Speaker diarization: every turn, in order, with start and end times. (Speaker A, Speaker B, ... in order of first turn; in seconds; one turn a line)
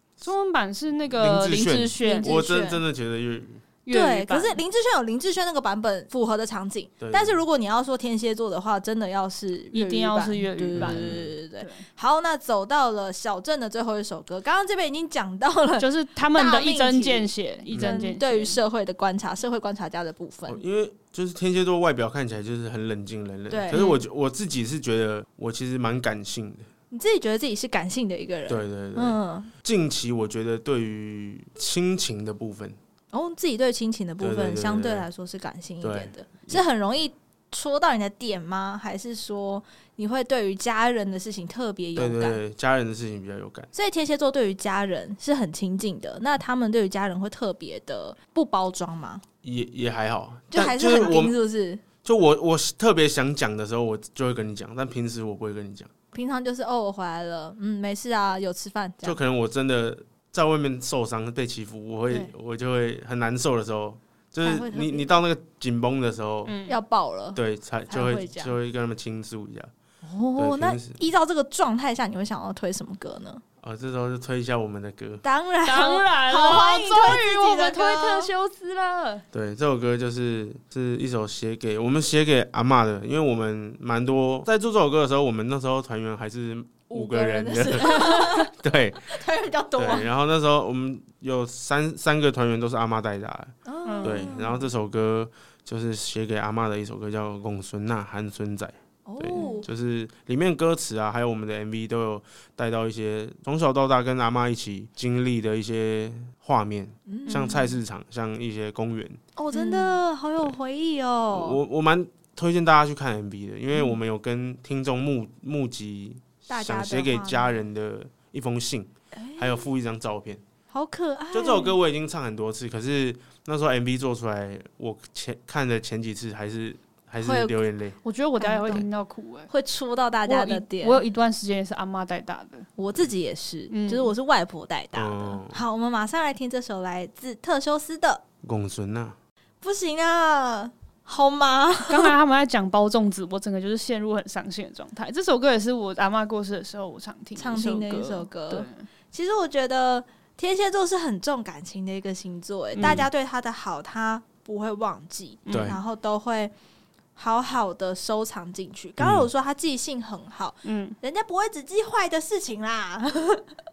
Speaker A: 0.2-2.4
Speaker B: 1.1-3.6
Speaker C: 2.0-2.8
Speaker A: 3.9-4.6
Speaker C: 3.9-20.6
Speaker B: 7.0-7.4
Speaker A: 9.7-11.8
Speaker B: 10.8-11.3
Speaker A: 15.8-18.6
Speaker B: 17.7-18.0
Speaker B: 20.5-26.7
Speaker C: 23.5-23.9
Speaker A: 23.7-24.0
Speaker C: 26.9-29.5
Speaker B: 28.5-32.8
Speaker C: 33.1-42.4
Speaker B: 34.2-35.1
Speaker B: 35.8-36.6
Speaker B: 42.0-43.7
Speaker C: 43.7-49.2
Speaker B: 49.4-51.4
Speaker C: 50.5-51.8
Speaker B: 52.0-55.9
Speaker C: 56.1-59.2
Speaker B: 59.0-66.6
Speaker C: 64.4-65.2
Speaker A: 66.5-66.8
Speaker C: 66.7-68.5
Speaker B: 67.4-69.7
Speaker C: 70.0-73.4
Speaker B: 70.4-71.0
Speaker B: 73.6-75.2
Speaker C: 75.2-78.3
Speaker A: 75.6-79.2
Speaker B: 79.3-89.2
Speaker C: 86.9-90.1
Speaker A: 87.9-88.4
Speaker B: 89.8-93.5
Speaker C: 93.7-94.7
Speaker A: 93.8-94.3
Speaker B: 94.0-109.2
Speaker C: 99.1-99.7
Speaker C: 107.1-107.8
Speaker A: 107.3-107.7
Speaker C: 109.4-111.6
Speaker A: 109.5-109.9
Speaker B: 111.3-120.4
Speaker C: 113.7-114.0
Speaker C: 116.5-117.6
Speaker C: 119.1-119.7
Speaker C: 120.7-121.8
Speaker B: 121.3-128.0
Speaker C: 127.2-127.6
Speaker A: 128.0-129.5
Speaker C: 128.4-128.9
Speaker C: 129.5-131.0
Speaker A: 130.3-132.7
Speaker C: 132.8-138.2
Speaker A: 133.7-134.1
Speaker B: 134.9-135.6
Speaker B: 138.4-139.2
Speaker C: 139.6-142.1
Speaker A: 141.9-148.9
Speaker C: 147.4-156.5
Speaker A: 152.7-153.0
Speaker B: 152.8-153.1
Speaker A: 155.5-155.8
Speaker B: 155.5-155.8
Speaker C: 157.2-163.5
Speaker B: 159.0-159.3
Speaker A: 160.6-161.0